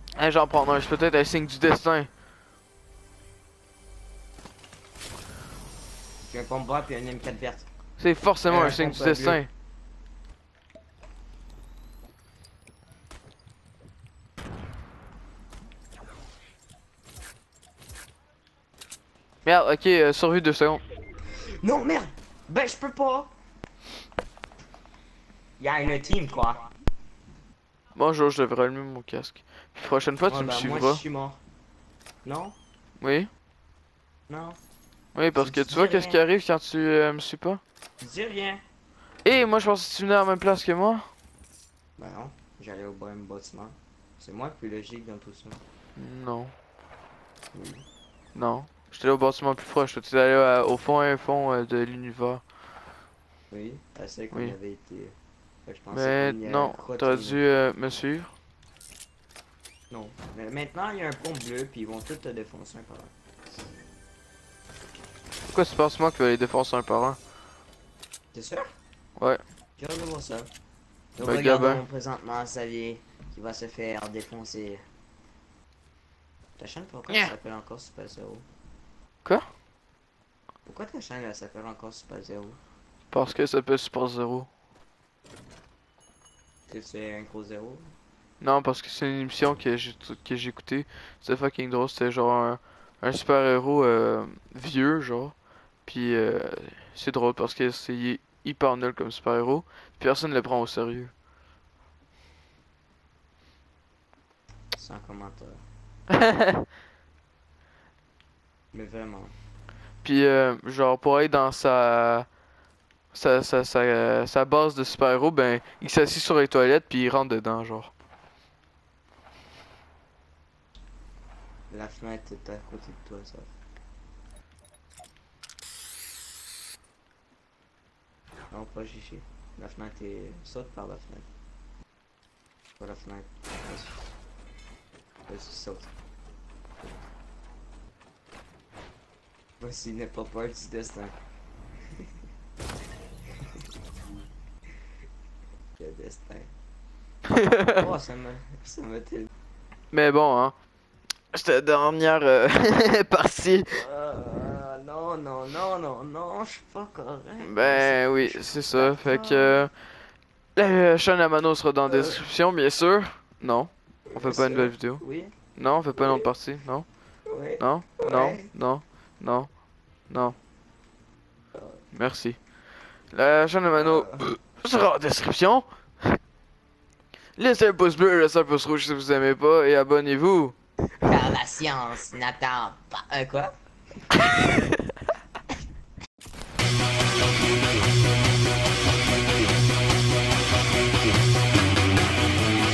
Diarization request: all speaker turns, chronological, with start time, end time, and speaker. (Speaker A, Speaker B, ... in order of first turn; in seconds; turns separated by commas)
Speaker A: 0.1-2.1, Speaker B: 6.2-7.7, Speaker A: 8.0-9.5, Speaker B: 8.5-9.4, Speaker A: 19.4-20.8, Speaker B: 21.3-23.3, Speaker B: 25.6-26.7, Speaker A: 27.9-31.0, Speaker B: 30.2-31.4, Speaker B: 32.2-32.6, Speaker A: 33.0-33.3, Speaker B: 34.3-34.6, Speaker A: 35.1-37.6, Speaker B: 35.4-36.2, Speaker B: 38.0-38.6, Speaker A: 39.2-41.1, Speaker B: 42.0-45.6, Speaker A: 46.0-46.5, Speaker B: 47.5-47.9, Speaker A: 48.4-52.4, Speaker B: 53.5-57.4, Speaker A: 55.9-58.3, Speaker B: 59.9-63.1, Speaker A: 65.5-67.2, Speaker B: 68.3-68.7, Speaker B: 69.8-70.5, Speaker B: 71.2-74.8, Speaker A: 71.2-71.8, Speaker B: 76.6-78.5, Speaker B: 80.7-82.6, Speaker A: 83.1-84.5, Speaker B: 86.7-87.9, Speaker A: 88.4-95.3, Speaker A: 95.9-101.1, Speaker B: 104.7-105.6, Speaker A: 106.1-106.7, Speaker B: 108.7-109.3, Speaker A: 110.0-112.3, Speaker A: 113.1-117.9, Speaker B: 121.7-123.5, Speaker B: 128.5-131.3, Speaker B: 132.8-134.0, Speaker B: 135.3-135.9, Speaker B: 139.6-141.2, Speaker B: 143.4-143.6, Speaker B: 145.8-146.5, Speaker A: 147.3-147.9, Speaker B: 147.8-149.3, Speaker A: 149.9-150.6, Speaker A: 151.3-153.8, Speaker B: 153.7-159.7, Speaker A: 157.4-159.7, Speaker A: 160.6-165.0, Speaker B: 161.9-162.2, Speaker B: 164.1-165.3, Speaker A: 165.6-166.9, Speaker B: 166.0-166.3, Speaker B: 167.3-168.5, Speaker A: 167.6-169.5, Speaker A: 170.1-170.4, Speaker A: 171.9-172.4, Speaker A: 173.1-176.2, Speaker B: 173.7-174.3, Speaker A: 177.4-180.6, Speaker B: 181.0-183.5